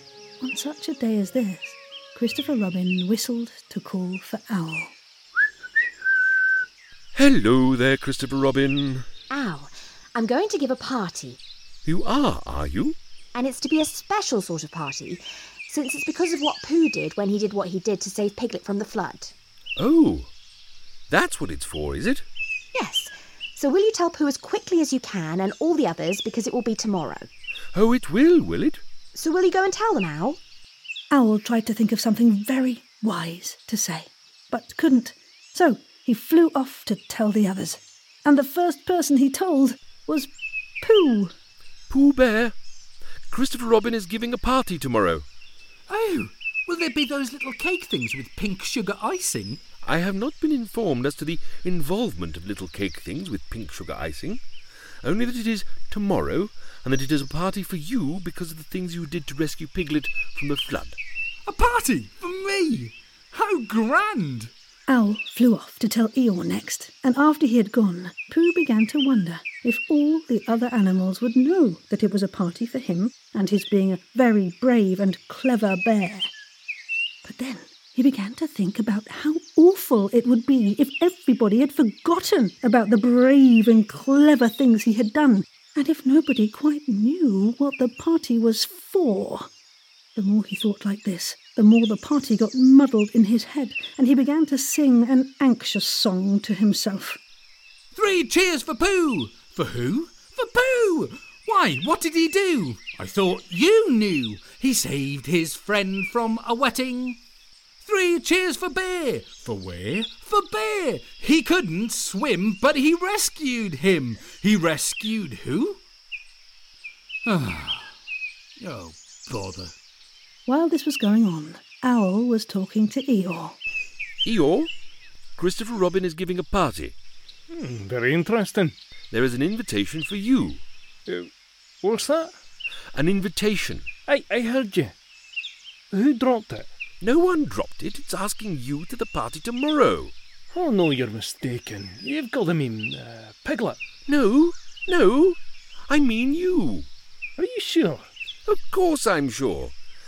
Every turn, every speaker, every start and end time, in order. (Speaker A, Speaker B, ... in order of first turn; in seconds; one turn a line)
Speaker A: 0.4-4.9
Speaker B: 7.1-9.1
Speaker C: 9.3-11.4
Speaker B: 11.8-13.0
Speaker C: 13.3-19.3
Speaker B: 19.8-20.3
Speaker B: 21.1-22.2
Speaker C: 22.7-27.3
Speaker B: 27.7-28.8
Speaker C: 29.1-30.4
Speaker A: 31.1-41.3
Speaker B: 41.9-42.5
Speaker B: 43.3-45.2
Speaker D: 45.9-49.6
Speaker B: 49.8-54.4
Speaker B: 55.0-61.0
Speaker D: 61.4-64.5
Speaker A: 64.9-76.3
Speaker A: 77.2-89.5
Speaker A: 90.2-97.2
Speaker D: 97.9-107.2
Speaker D: 107.8-115.8
Speaker D: 117.2-117.9
Speaker D: 118.6-119.7
Speaker A: 120.5-123.6
Speaker B: 124.2-124.7
Speaker B: 125.4-126.9
Speaker E: 127.5-128.8
Speaker B: 129.1-130.6
Speaker E: 131.8-132.3
Speaker B: 132.9-133.9
Speaker E: 134.1-134.9
Speaker E: 135.9-136.7
Speaker B: 137.0-140.1
Speaker E: 140.5-143.8
Speaker B: 144.1-146.9
Speaker E: 147.4-148.1
Speaker B: 148.4-149.7